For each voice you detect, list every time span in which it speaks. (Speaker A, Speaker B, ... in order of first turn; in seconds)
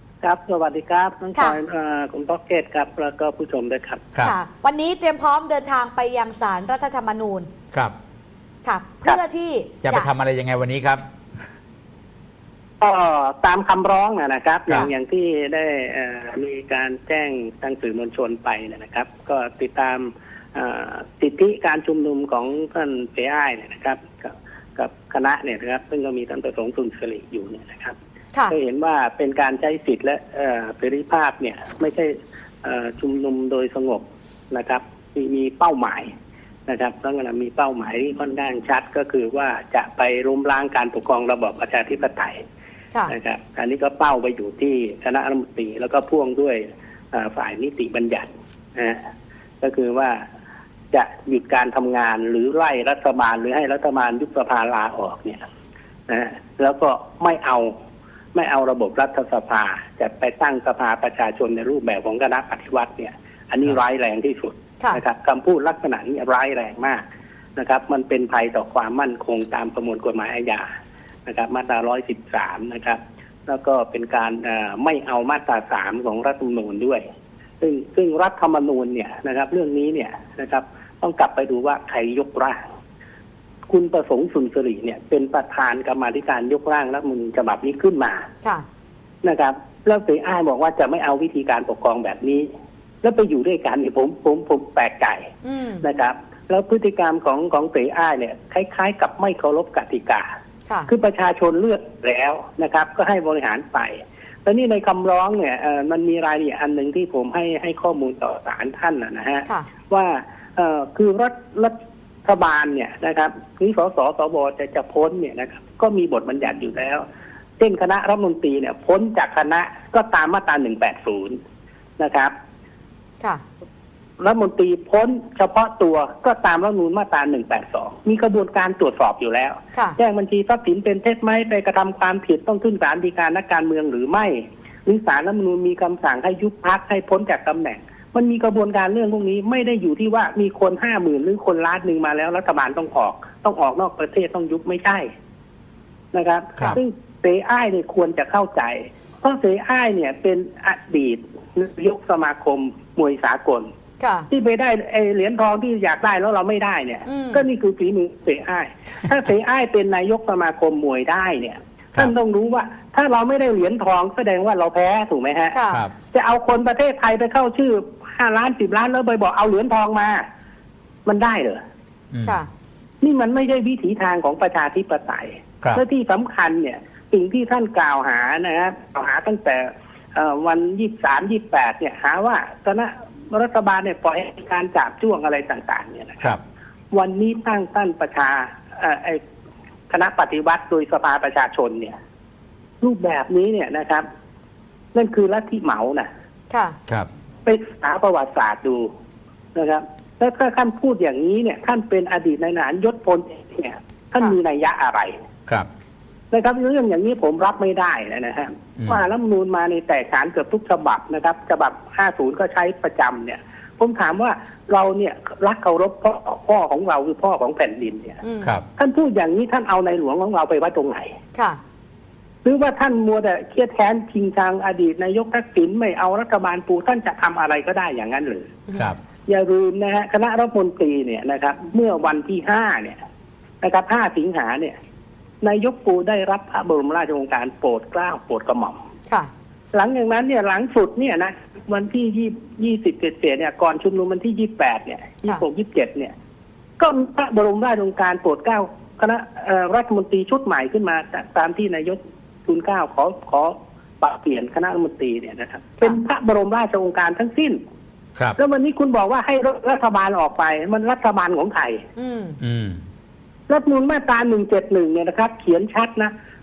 Speaker A: 0.2-4.1, 12.8-27.9, 28.5-36.1, 36.7-42.4, 43.1-49.0, 49.6-50.2, 50.9-55.4, 56.1-57.7, 58.4-67.0, 67.6-70.7, 71.3-77.0, 77.6-82.6, 83.7-88.2, 89.2-92.5, 93.0-95.3, 95.8-100.2, 100.9-111.8, 112.3-117.0, 117.6-121.4, 122.0-122.3, 124.2-145.1, 146.1-153.7, 154.3-165.6, 166.1-170.2, 171.1-171.6, 173.0-186.4, 186.9-189.2, 189.9-191.9, 192.8-194.1, 194.9-196.1, 197.5-198.9, 199.6-205.1, 206.3-218.2, 218.8-221.1, 222.4-228.5, 229.3-233.0, 233.6-234.8, 235.4-238.8, 239.7-246.1, 246.8-257.6, 258.4-261.8, 263.5-266.1
Speaker B: 4.2-7.5, 8.6-10.1, 95.4-95.8, 154.0-154.3, 157.1-157.4, 165.5-165.8, 196.5-196.8, 218.2-218.5, 262.0-262.4
Speaker C: 9.8-11.0, 172.1-172.4, 262.4-262.8